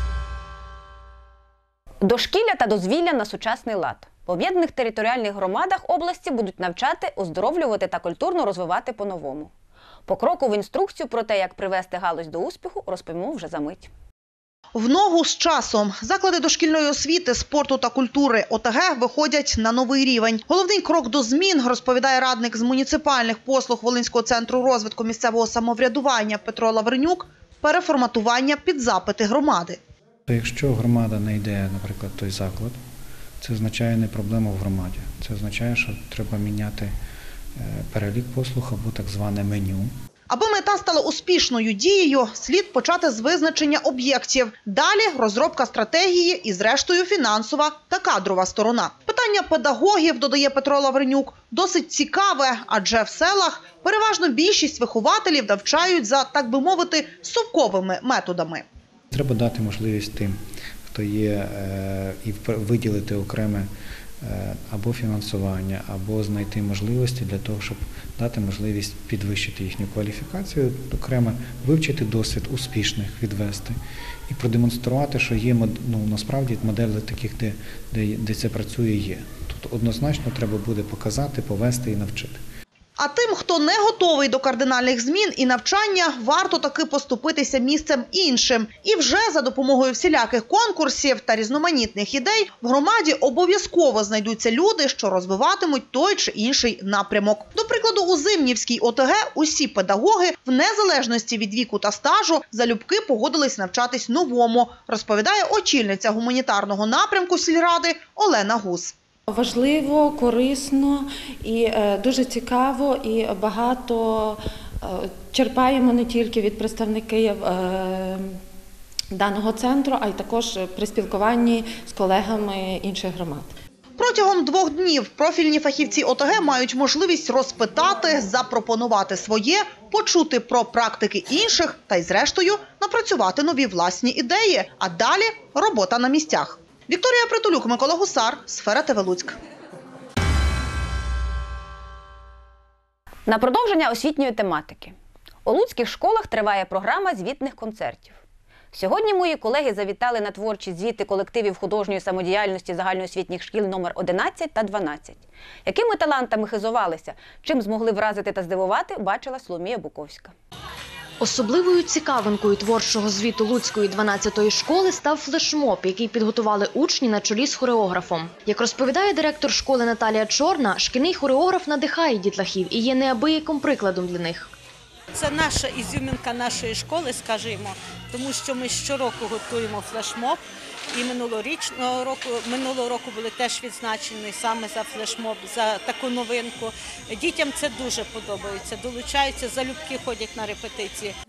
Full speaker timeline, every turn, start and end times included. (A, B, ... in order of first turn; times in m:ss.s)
0:02.0-0:09.5 A
0:10.0-0:13.9 A
0:14.7-0:29.8 B
0:30.3-0:32.8 C
0:33.4-0:36.9 C
0:37.6-0:39.9 C
0:40.3-0:58.6 B
0:59.1-1:03.7 C
1:04.2-1:13.7 C
1:14.3-1:22.4 C
1:23.0-1:48.9 B
1:49.3-1:58.4 D
1:59.1-2:03.6 D
2:04.0-2:19.3 B
2:23.2-2:24.9 A
2:25.4-2:28.2 A
2:28.7-2:40.3 A
2:41.2-2:54.5 E
2:55.1-3:00.4 F
3:00.9-3:11.1 F